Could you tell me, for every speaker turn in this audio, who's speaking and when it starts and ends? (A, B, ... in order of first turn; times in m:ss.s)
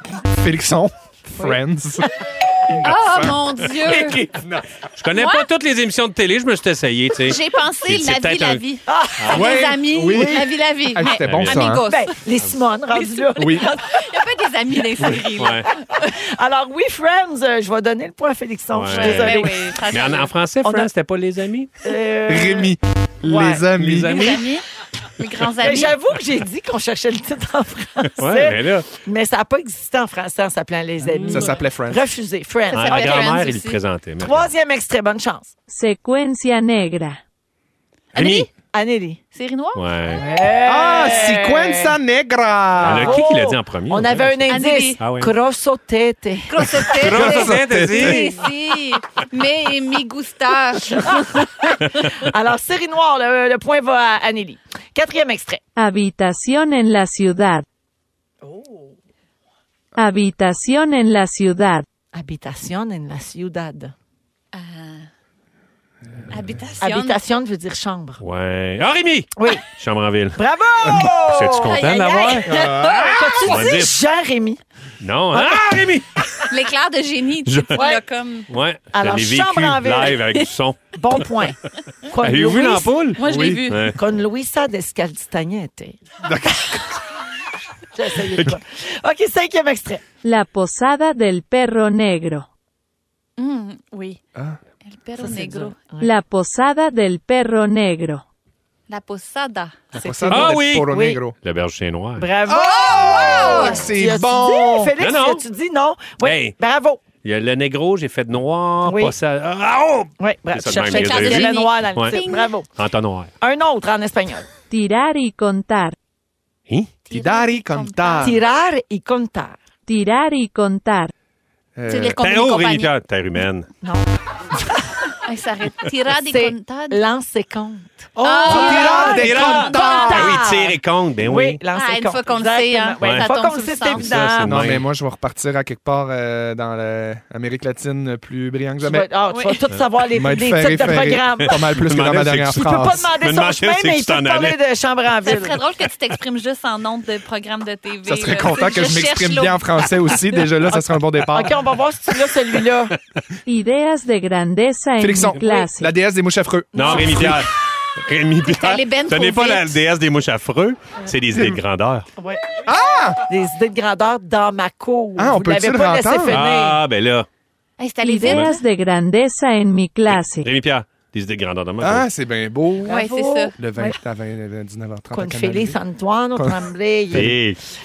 0:00.3-0:04.6 A
0:02.8-0:04.3 B
0:03.9-0:04.1 C
0:05.0-0:08.6 C
0:05.2-0:05.5 B
0:07.2-0:12.1 B
0:08.9-0:09.5 D
0:09.2-0:09.6 C
0:09.3-0:11.8 A
0:11.2-0:11.6 C
0:11.8-0:13.8 D
0:12.9-0:16.1 B
0:13.4-0:13.8 A
0:15.3-0:15.7 C
0:16.0-0:19.8 D
0:18.7-0:21.7 C
0:18.9-0:20.8 B
0:21.8-0:22.7 D
0:22.3-0:24.4 A
0:23.3-0:23.7 D
0:23.8-0:24.4 C
0:24.0-0:24.6 B
0:25.2-0:26.0 B
0:25.6-0:33.4 D
0:28.2-0:28.9 C
0:31.2-0:31.5 C
0:31.3-0:32.1 A
0:32.7-0:33.8 B
0:32.8-0:34.5 C
0:34.2-0:35.5 D
0:35.7-0:37.2 E
0:38.1-0:38.5 B
0:38.2-0:38.5 C
0:38.7-0:39.2 D
0:39.3-0:40.2 B
0:39.8-0:40.2 C
0:40.2-0:41.9 D
0:40.6-0:43.2 A
0:42.8-0:46.6 D
0:42.8-0:45.3 C
0:44.5-0:45.0 B
0:46.5-0:51.4 B
0:46.8-0:48.4 C
0:46.9-0:48.3 A
0:51.0-0:55.6 D
0:55.8-0:57.6 E
0:58.4-0:58.9 D
1:00.0-1:01.9 E
1:02.1-1:03.9 D
1:04.5-1:05.1 B
1:06.3-1:07.2 B
1:06.8-1:08.2 D
1:08.2-1:10.4 C
1:09.4-1:09.6 D
1:10.4-1:14.6 D
1:11.2-1:14.0 C
1:11.7-1:13.2 B
1:12.5-1:13.4 A
1:15.0-1:16.1 C
1:16.5-1:18.5 B
1:17.4-1:17.9 C
1:18.5-1:21.0 C
1:18.9-1:20.2 D
1:20.9-1:23.2 D
1:22.1-1:24.0 C
1:23.2-1:23.9 B
1:23.2-1:23.6 A
1:23.9-1:26.0 D
1:26.2-1:26.9 A
1:27.9-1:30.0 D
1:30.2-1:32.5 E
1:33.4-1:34.2 B
1:34.8-1:35.9 B
1:35.2-1:36.2 D
1:36.0-1:38.2 E
1:38.9-1:39.9 B
1:39.9-1:41.2 D
1:40.0-1:41.4 A
1:40.3-1:42.3 C
1:42.2-1:47.0 D
1:42.5-1:45.0 A
1:42.7-1:43.9 B
1:45.0-1:45.4 C
1:46.2-1:46.6 C
1:47.2-1:52.2 C
1:48.8-1:49.1 D
1:50.2-1:52.7 D
1:50.7-1:52.5 B
1:52.7-1:53.3 C
1:53.4-1:54.5 D
1:54.7-1:56.0 E
1:57.1-1:58.4 B
1:57.1-1:58.4 A
1:58.2-1:59.6 D
1:59.9-2:01.1 E
2:01.8-2:02.2 A
2:01.9-2:02.9 B
2:02.2-2:03.7 C
2:03.8-2:04.1 D
2:05.2-2:07.0 B
2:06.2-2:14.6 D
2:08.2-2:10.4 A
2:08.2-2:11.6 C
2:08.2-2:10.1 B
2:11.7-2:14.1 B
2:13.0-2:13.3 C
2:13.9-2:14.8 C
2:14.4-2:19.1 A
2:18.8-2:21.6 D
2:20.1-2:23.1 A
2:21.6-2:24.6 C
2:22.5-2:25.6 D
2:25.2-2:30.3 B
2:28.0-2:31.6 A
2:31.3-2:33.0 D
2:33.5-2:36.0 E
2:35.0-2:37.5 A
2:36.7-2:42.1 C
2:36.8-2:37.0 D
2:38.4-2:39.8 B
2:42.2-2:42.6 D
2:42.7-2:43.2 A
2:43.2-2:46.8 D
2:45.2-2:46.4 A
2:46.3-2:47.3 C
2:47.8-2:48.6 B
2:48.0-2:50.5 E
2:48.2-2:48.5 C
2:50.1-2:52.1 C
2:51.8-2:53.0 A
2:52.8-2:53.6 B
2:52.8-2:54.0 D
2:53.6-2:55.8 A
2:55.1-2:57.4 D
2:56.4-2:57.3 A
2:57.1-2:57.6 C